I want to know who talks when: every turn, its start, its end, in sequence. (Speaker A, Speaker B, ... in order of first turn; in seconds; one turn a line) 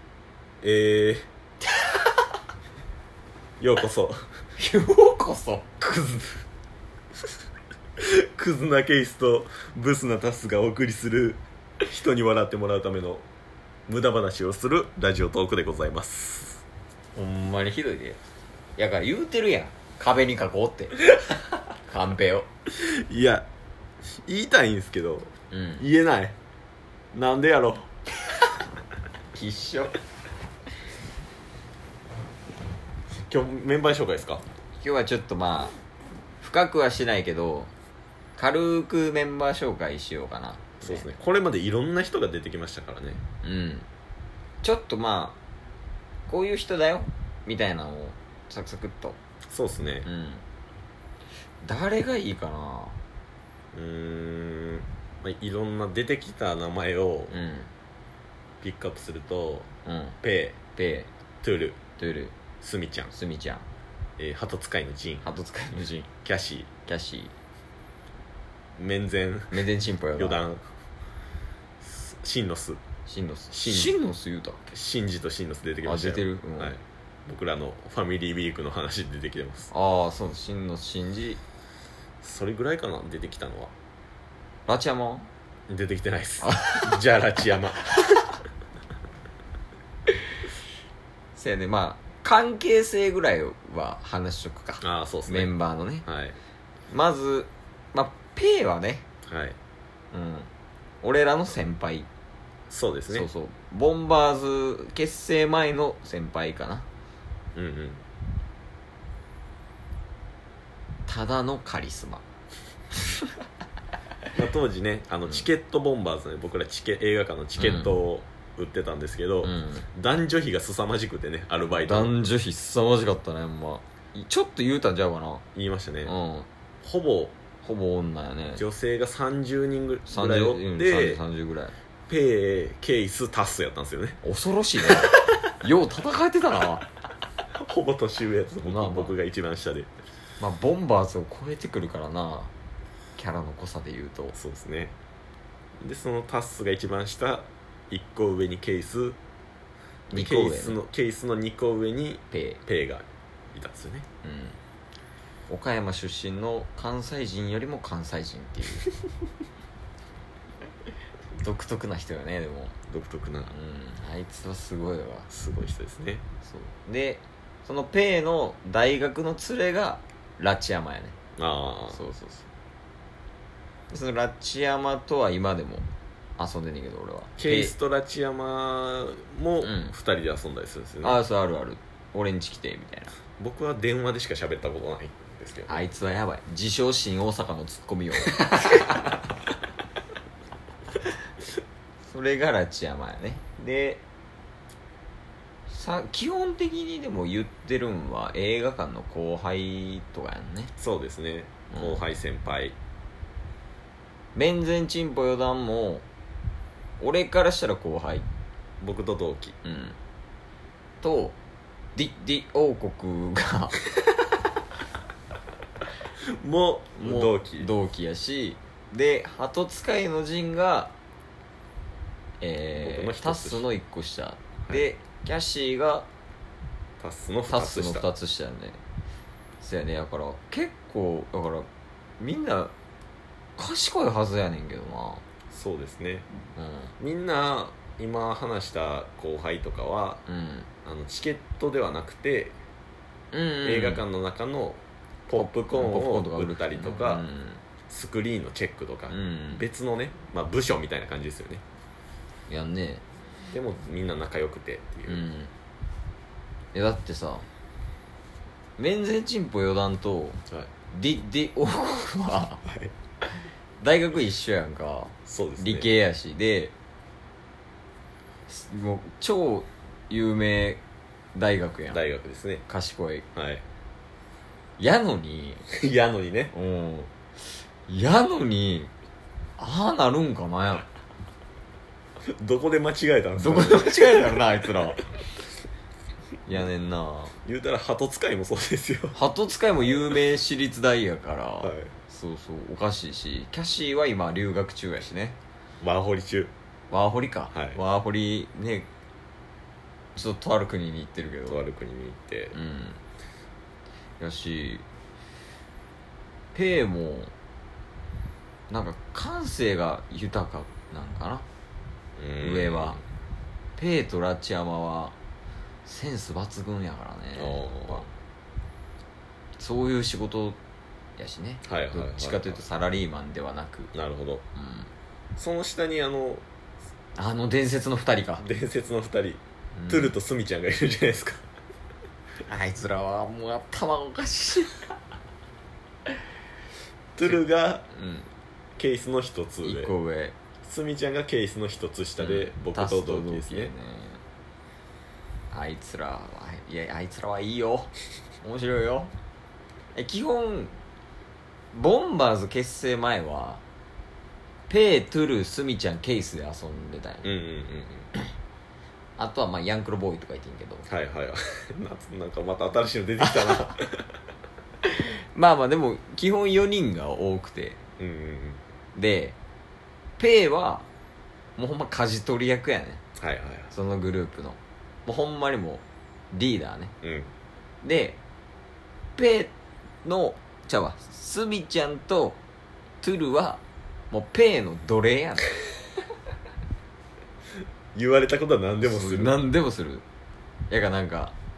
Speaker A: 0.6-1.3
Speaker B: 1.8-2.2
Speaker A: 3.6-4.2
Speaker B: 4.6-6.5
Speaker A: 8.0-13.3
Speaker A: 13.9-16.6
Speaker B: 17.1-18.2
Speaker B: 18.8-21.1
Speaker B: 21.9-22.5
Speaker A: 22.7-23.5
Speaker A: 24.1-26.4
Speaker B: 25.5-25.8
Speaker A: 27.1-27.9
Speaker B: 29.3-29.9
Speaker A: 33.1-34.4
Speaker B: 34.8-35.7
Speaker B: 36.4-37.7
Speaker B: 38.4-41.1
Speaker A: 40.8-43.2
Speaker B: 43.4-43.9
Speaker B: 44.6-45.4
Speaker B: 46.3-49.2
Speaker A: 49.5-50.1
Speaker B: 50.0-50.4
Speaker B: 51.6-53.0
Speaker A: 53.7-57.4
Speaker B: 57.3-57.7
Speaker A: 58.6-59.7
Speaker B: 59.9-60.2
Speaker A: 60.2-60.6
Speaker B: 60.7-61.1
Speaker A: 61.4-61.8
Speaker B: 62.0-62.3
Speaker A: 62.6-63.1
Speaker B: 63.1-63.7
Speaker A: 64.2-65.2
Speaker B: 65.2-66.1
Speaker A: 66.2-66.7
Speaker B: 66.8-67.3
Speaker A: 68.8-69.7
Speaker B: 69.5-70.4
Speaker A: 70.2-70.7
Speaker A: 71.8-72.8
Speaker B: 73.1-74.6
Speaker A: 73.5-74.0
Speaker A: 74.7-79.7
Speaker B: 75.8-76.7
Speaker B: 79.7-81.4
Speaker A: 82.2-83.7
Speaker B: 84.7-85.3
Speaker A: 85.7-87.9
Speaker B: 86.4-86.8
Speaker B: 91.3-96.0
Speaker A: 94.8-95.5
Speaker A: 96.0-96.4
Speaker B: 96.9-99.0
Speaker A: 99.3-99.6
Speaker B: 100.1-100.5
Speaker B: 101.0-102.1
Speaker A: 102.7-103.3
Speaker B: 103.1-106.9
Speaker A: 107.5-108.0
Speaker B: 111.1-112.2
Speaker A: 114.3-122.1
Speaker B: 117.6-117.9
Speaker B: 119.4-119.8
Speaker B: 121.8-125.5
Speaker A: 125.5-126.1
Speaker B: 126.0-126.5
Speaker A: 126.8-127.3
Speaker B: 127.6-128.6
Speaker A: 128.6-131.2
Speaker B: 130.1-131.8
Speaker A: 132.1-134.2
Speaker B: 134.2-136.9
Speaker A: 134.9-135.2
Speaker A: 137.5-139.9
Speaker B: 138.6-139.1
Speaker B: 140.4-142.5
Speaker B: 143.2-144.4
Speaker A: 144.3-144.9
Speaker A: 145.8-149.2
Speaker A: 150.1-154.1
Speaker B: 150.1-150.8
Speaker B: 152.3-152.6
Speaker B: 154.2-154.6
Speaker B: 155.5-158.9
Speaker B: 161.4-162.8
Speaker A: 162.9-163.6
Speaker B: 163.5-165.3
Speaker A: 165.3-166.3
Speaker B: 166.4-171.2
Speaker A: 171.4-172.0
Speaker B: 171.9-172.5
Speaker B: 173.9-177.7
Speaker A: 177.4-181.2
Speaker B: 179.6-179.9
Speaker B: 181.0-183.1
Speaker A: 183.4-185.8
Speaker B: 185.7-189.1
Speaker B: 192.1-194.0
Speaker B: 195.7-200.7
Speaker A: 200.8-202.8
Speaker B: 201.7-202.0
Speaker B: 204.3-206.1
Speaker B: 207.0-208.3
Speaker A: 208.8-209.6
Speaker B: 209.7-210.0
Speaker B: 211.0-211.4
Speaker B: 212.0-213.8
Speaker A: 216.2-217.7
Speaker B: 217.0-220.9
Speaker B: 222.4-226.1
Speaker A: 222.8-223.6
Speaker A: 227.0-228.1
Speaker B: 227.5-228.8
Speaker B: 229.6-231.7
Speaker B: 232.2-232.7
Speaker B: 233.6-235.2
Speaker A: 235.5-236.3
Speaker B: 236.6-236.9
Speaker A: 237.0-240.2
Speaker B: 240.3-240.7
Speaker A: 240.8-242.6
Speaker B: 243.3-244.0
Speaker A: 243.6-247.3
Speaker B: 245.4-247.6
Speaker A: 247.9-251.6
Speaker B: 249.1-249.6
Speaker B: 252.5-253.0
Speaker A: 253.5-255.2
Speaker B: 255.1-255.5
Speaker B: 256.7-257.5
Speaker B: 258.8-262.6
Speaker A: 262.6-262.9
Speaker B: 263.8-266.7
Speaker A: 265.3-265.9
Speaker B: 268.5-270.8
Speaker B: 271.4-272.0
Speaker A: 271.9-272.6
Speaker B: 272.7-273.3
Speaker A: 273.4-273.6
Speaker B: 274.8-275.6
Speaker A: 275.7-276.5
Speaker B: 276.5-277.1
Speaker B: 277.9-278.9
Speaker B: 279.6-280.9
Speaker A: 282.3-284.4
Speaker B: 283.4-285.0
Speaker B: 286.5-287.4
Speaker A: 287.4-289.2
Speaker B: 289.1-295.4
Speaker A: 291.6-291.9
Speaker A: 295.8-296.5
Speaker B: 296.9-298.9
Speaker A: 297.5-297.8
Speaker B: 300.2-301.6
Speaker A: 301.5-302.6
Speaker B: 302.5-303.0
Speaker B: 304.2-304.8
Speaker B: 306.5-307.3
Speaker B: 308.7-311.5
Speaker A: 312.2-313.0
Speaker B: 312.4-313.0
Speaker B: 313.8-315.1
Speaker B: 315.9-318.1
Speaker A: 317.4-318.1
Speaker B: 319.6-320.6
Speaker B: 321.2-323.9
Speaker A: 321.6-322.6
Speaker A: 323.9-324.4
Speaker B: 324.6-324.9
Speaker A: 325.4-326.4
Speaker B: 327.2-328.4
Speaker A: 328.4-331.4
Speaker B: 329.8-330.1
Speaker B: 332.5-334.8
Speaker A: 337.2-337.9
Speaker B: 337.9-338.3
Speaker A: 338.8-339.9
Speaker B: 339.6-340.4
Speaker A: 340.6-343.7
Speaker B: 342.2-344.2
Speaker B: 345.5-347.9
Speaker B: 348.4-349.1
Speaker B: 349.9-350.8
Speaker B: 351.7-353.6
Speaker B: 354.7-357.3
Speaker A: 357.2-358.1
Speaker B: 359.2-360.9
Speaker A: 360.9-364.1
Speaker B: 364.8-367.8
Speaker A: 368.0-368.6
Speaker B: 368.9-369.4
Speaker B: 370.2-370.9
Speaker B: 371.6-373.0
Speaker A: 373.2-373.7
Speaker B: 373.7-376.9
Speaker A: 377.0-377.3
Speaker B: 377.8-378.2
Speaker B: 379.2-379.5
Speaker B: 380.0-382.4
Speaker B: 383.0-385.6
Speaker A: 387.9-389.4
Speaker B: 388.8-390.1
Speaker B: 390.7-391.3